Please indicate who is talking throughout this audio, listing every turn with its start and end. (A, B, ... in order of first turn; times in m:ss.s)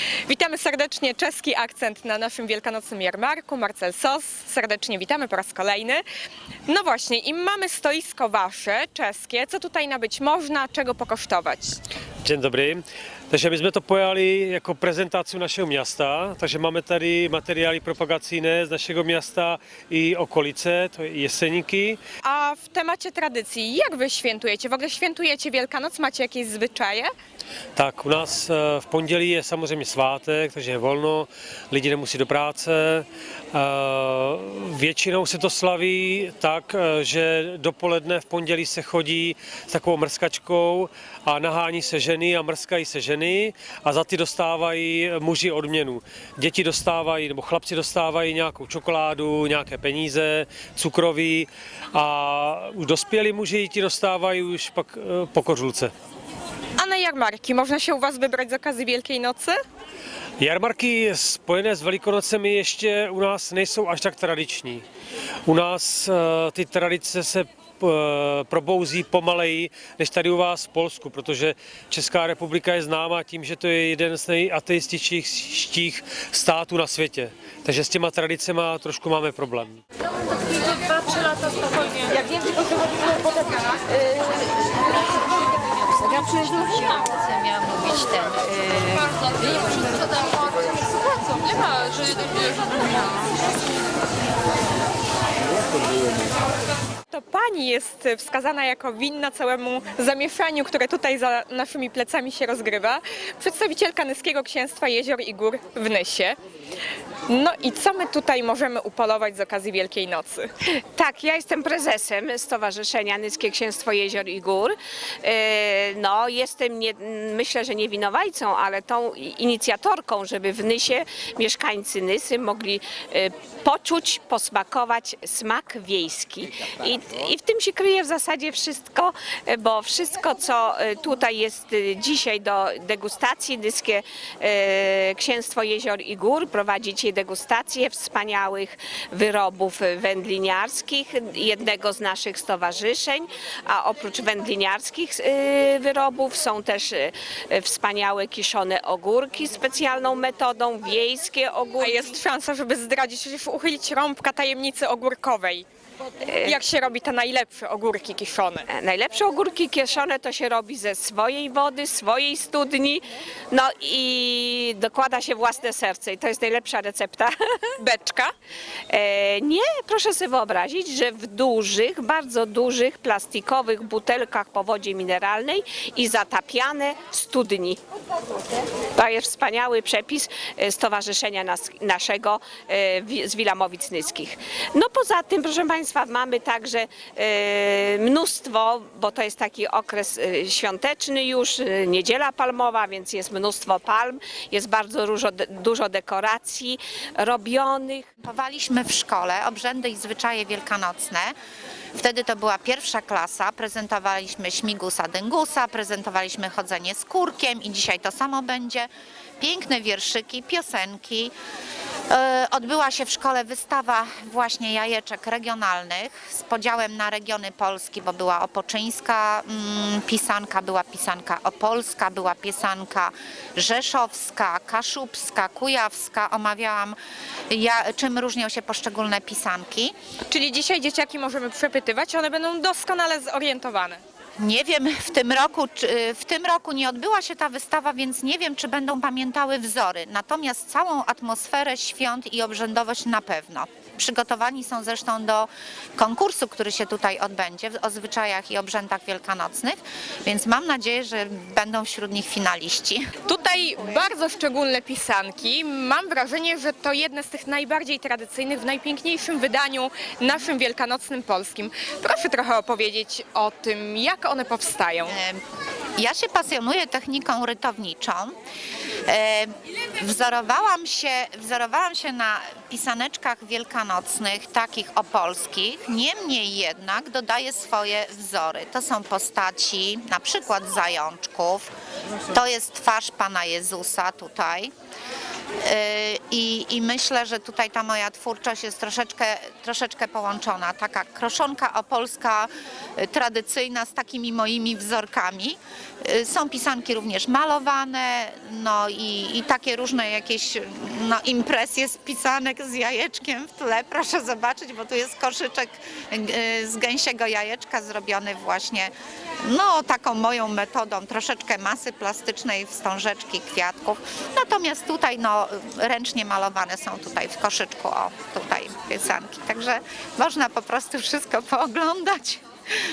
0:00.3-0:06.0 A
0:06.7-0:11.8 A
0:12.2-0:22.0 B
0:22.2-0:27.1 A
0:27.8-0:55.9 B
0:56.8-0:59.6 A
1:00.4-1:04.8 B
1:05.5-1:19.8 B
1:37.1-1:46.4 A
1:47.3-1:50.5 A
1:50.9-2:32.1 C
2:31.8-2:35.6 A
2:36.3-2:36.6 C
2:36.4-2:38.7 A
2:38.7-2:47.4 C
2:47.8-2:48.3 A
2:48.9-2:57.8 C
2:58.9-3:18.1 C
3:18.2-3:21.4 D
3:22.0-3:28.9 D
3:29.4-3:31.3 D
3:32.1-3:47.0 D
3:47.5-3:49.9 D
3:50.3-3:54.0 A
3:54.4-4:13.1 D
4:13.3-4:25.2 A
4:25.1-4:25.4 D
4:26.0-4:28.4 D
4:29.1-4:41.7 D
4:42.3-4:44.7 D
4:45.6-5:08.9 D
5:09.5-5:22.4 D